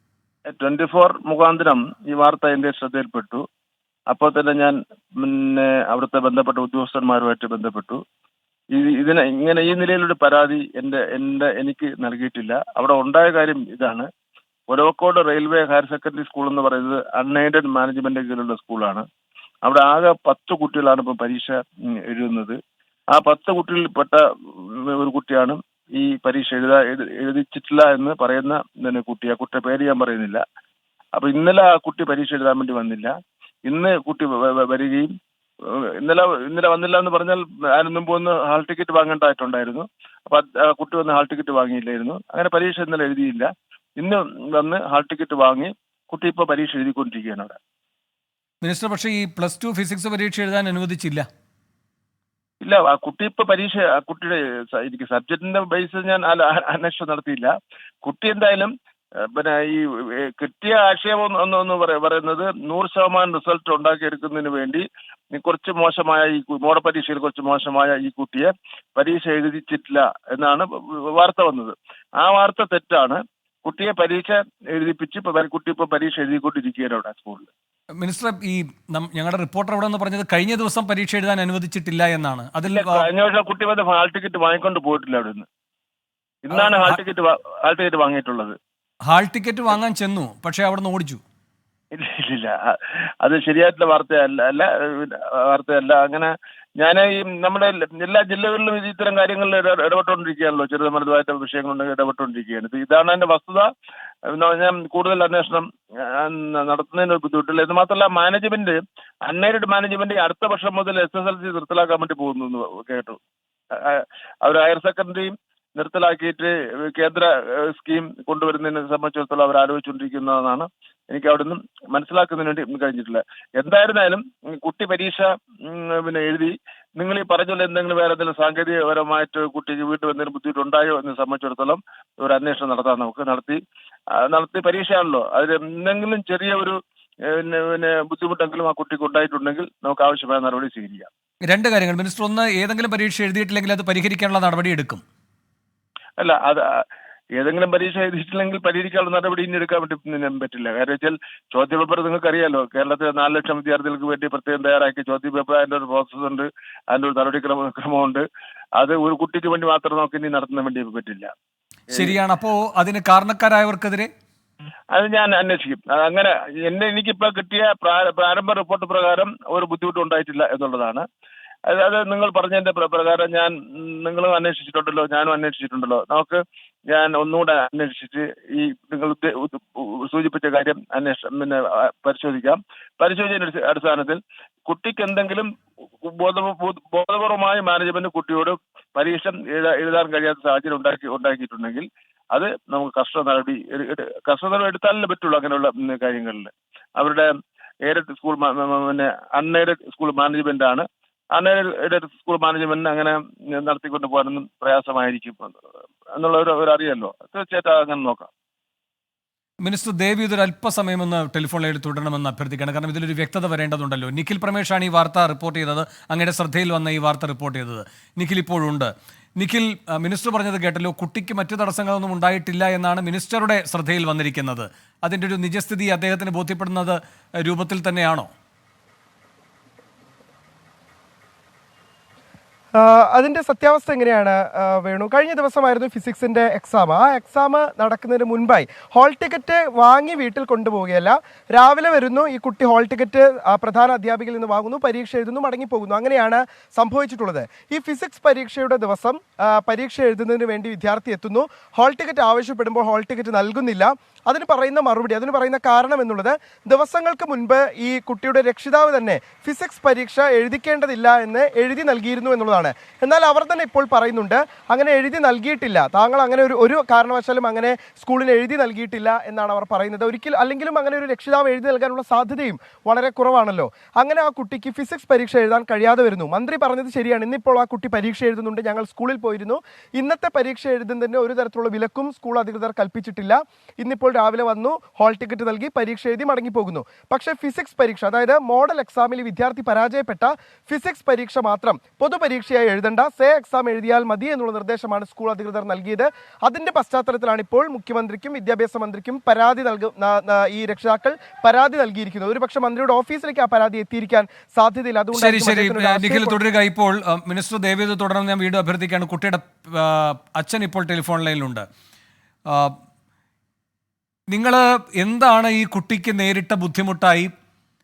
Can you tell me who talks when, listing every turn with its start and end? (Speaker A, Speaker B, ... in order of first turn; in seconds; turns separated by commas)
Speaker A: 0.5-3.4, Speaker A: 4.1-8.0, Speaker A: 8.7-14.1, Speaker A: 14.7-19.1, Speaker A: 19.6-22.6, Speaker A: 23.1-30.4, Speaker A: 31.2-33.1, Speaker A: 33.7-35.1, Speaker A: 35.7-47.6, Speaker B: 48.6-51.3, Speaker A: 52.6-57.5, Speaker A: 58.0-58.7, Speaker A: 59.4-77.5, Speaker B: 78.0-83.0, Speaker A: 82.7-85.5, Speaker A: 86.5-88.5, Speaker B: 86.5-87.0, Speaker B: 89.1-91.2, Speaker A: 91.9-103.7, Speaker A: 104.3-113.2, Speaker A: 113.7-133.6, Speaker A: 134.3-136.8, Speaker A: 137.3-141.1, Speaker B: 141.5-145.0, Speaker A: 146.2-146.6, Speaker A: 147.3-158.2, Speaker A: 158.8-161.3, Speaker B: 161.9-164.1, Speaker A: 164.9-171.1, Speaker A: 171.7-185.5, Speaker A: 186.0-197.3, Speaker A: 197.8-205.6, Speaker A: 206.2-208.3, Speaker B: 209.6-228.3, Speaker C: 232.8-306.4, Speaker B: 305.2-311.7, Speaker B: 312.5-312.8, Speaker B: 314.3-317.3